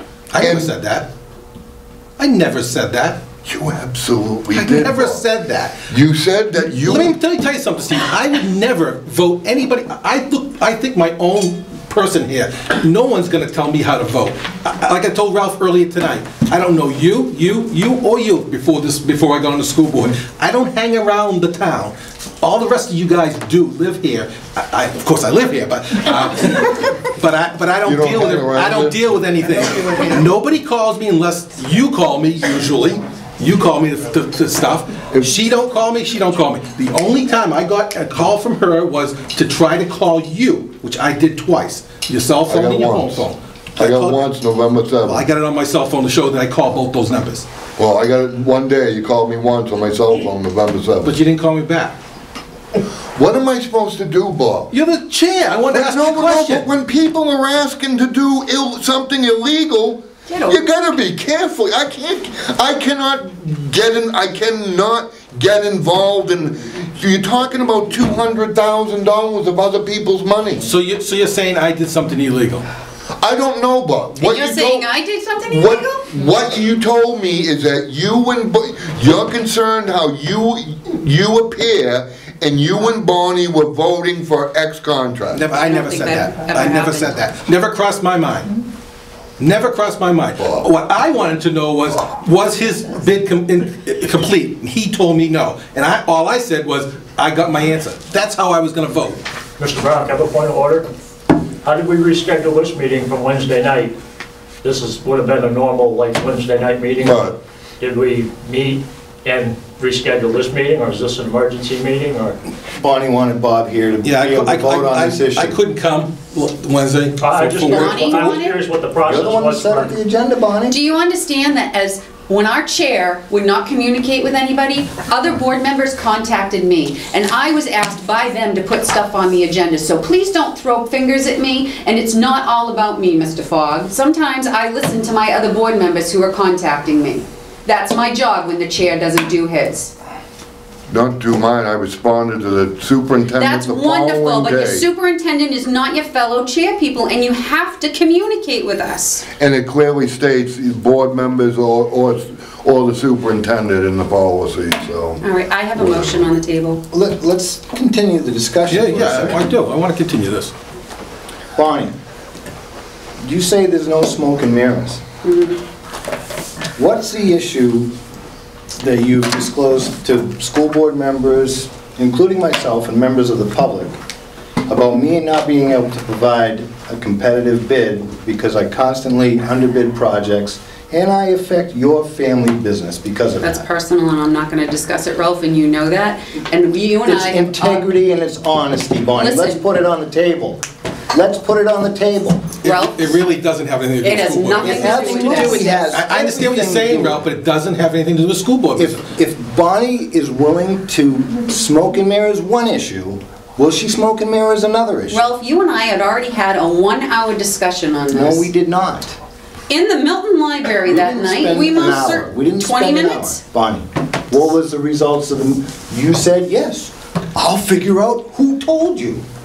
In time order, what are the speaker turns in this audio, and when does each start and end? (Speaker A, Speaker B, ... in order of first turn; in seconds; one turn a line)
Speaker A: 0.3-1.1
Speaker B: 0.3-0.7
Speaker A: 2.2-3.2
Speaker B: 3.5-5.2
Speaker A: 4.5-5.8
Speaker B: 5.9-7.2
Speaker A: 6.8-44.2
Speaker B: 27.8-29.2
Speaker C: 29.6-30.2
Speaker B: 42.5-45.3
Speaker A: 45.0-47.5
Speaker B: 47.8-51.2
Speaker A: 51.0-51.9
Speaker B: 52.8-54.7
Speaker A: 54.7-56.7
Speaker B: 55.7-70.7
Speaker D: 60.3-60.7
Speaker A: 70.6-72.7
Speaker B: 73.2-74.9
Speaker D: 74.2-76.3
Speaker B: 75.5-85.5
Speaker A: 85.3-88.6
Speaker D: 85.5-87.2
Speaker A: 89.4-99.2
Speaker B: 90.4-90.7
Speaker E: 99.6-100.8
Speaker E: 101.6-104.0
Speaker E: 104.6-112.4
Speaker B: 107.0-107.4
Speaker C: 112.7-115.6
Speaker A: 114.0-118.4
Speaker E: 117.2-120.0
Speaker D: 117.7-118.6
Speaker C: 119.1-120.8
Speaker D: 120.7-139.9
Speaker B: 140.9-144.9
Speaker D: 143.4-149.3
Speaker B: 149.4-155.2
Speaker D: 155.2-156.8
Speaker B: 155.8-156.3
Speaker C: 156.9-159.5
Speaker A: 158.7-160.5
Speaker C: 161.6-161.9
Speaker C: 163.2-165.0
Speaker D: 165.2-165.6
Speaker C: 166.8-167.9
Speaker C: 168.7-174.0
Speaker C: 174.7-183.7
Speaker D: 183.4-187.9
Speaker C: 187.1-192.5
Speaker D: 189.2-189.6
Speaker D: 192.6-193.2
Speaker A: 192.6-199.0
Speaker D: 194.0-195.9
Speaker C: 194.6-197.2
Speaker C: 198.8-205.2
Speaker D: 205.1-208.5
Speaker C: 208.1-209.2
Speaker D: 209.7-213.4
Speaker C: 210.9-219.2